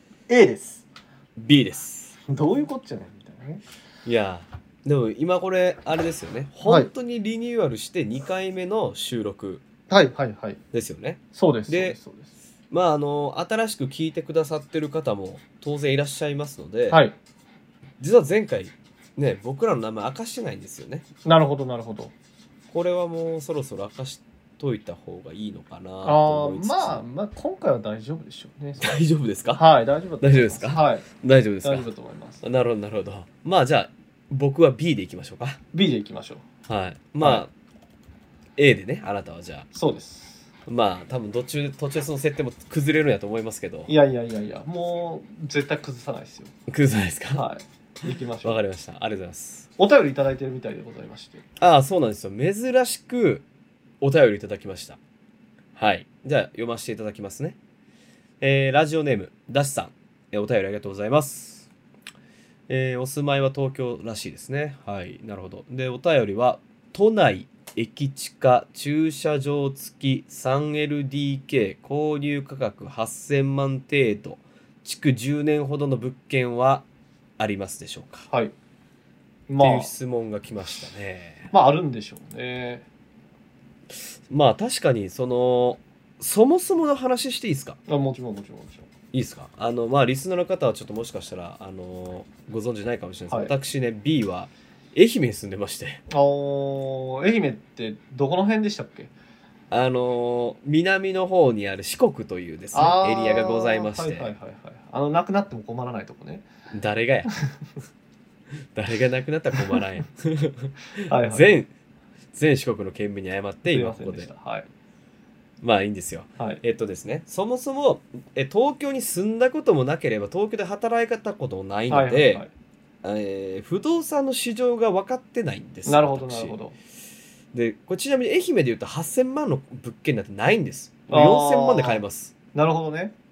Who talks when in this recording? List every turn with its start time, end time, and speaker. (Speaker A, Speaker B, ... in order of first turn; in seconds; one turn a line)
Speaker A: 0.3-0.8
Speaker B: 1.4-2.2
Speaker A: 2.3-3.6
Speaker B: 4.0-9.6
Speaker A: 6.6-6.9
Speaker A: 9.9-10.6
Speaker B: 10.7-11.9
Speaker A: 11.3-12.3
Speaker B: 12.7-17.0
Speaker A: 16.9-17.1
Speaker B: 18.0-21.1
Speaker A: 21.2-22.1
Speaker B: 22.7-27.0
Speaker A: 26.0-28.9
Speaker B: 28.8-29.6
Speaker A: 29.5-31.1
Speaker B: 30.2-31.9
Speaker A: 31.6-32.4
Speaker B: 32.4-35.6
Speaker A: 35.7-36.4
Speaker B: 36.7-37.5
Speaker A: 37.2-37.4
Speaker B: 38.6-39.7
Speaker A: 39.7-40.4
Speaker B: 40.6-43.9
Speaker A: 43.9-46.5
Speaker B: 46.7-47.4
Speaker A: 47.3-48.6
Speaker B: 48.4-49.7
Speaker A: 49.8-51.4
Speaker B: 51.6-53.4
Speaker B: 54.0-55.0
Speaker B: 55.8-57.6
Speaker B: 58.4-61.7
Speaker B: 62.7-76.8
Speaker B: 77.4-78.3
Speaker A: 79.5-79.9
Speaker B: 79.6-81.5
Speaker A: 81.5-82.8
Speaker B: 83.9-87.8
Speaker A: 87.9-88.9
Speaker B: 89.1-96.0
Speaker A: 93.3-93.5
Speaker A: 96.1-99.1
Speaker B: 99.7-104.3
Speaker A: 102.7-106.5
Speaker B: 106.7-107.3
Speaker B: 108.7-111.7
Speaker A: 111.1-111.5
Speaker B: 112.3-114.3
Speaker A: 113.7-114.7
Speaker B: 115.6-122.4
Speaker A: 121.9-122.5
Speaker B: 123.0-126.6
Speaker A: 125.8-126.8
Speaker B: 127.5-132.3
Speaker A: 131.1-132.0
Speaker A: 132.5-133.1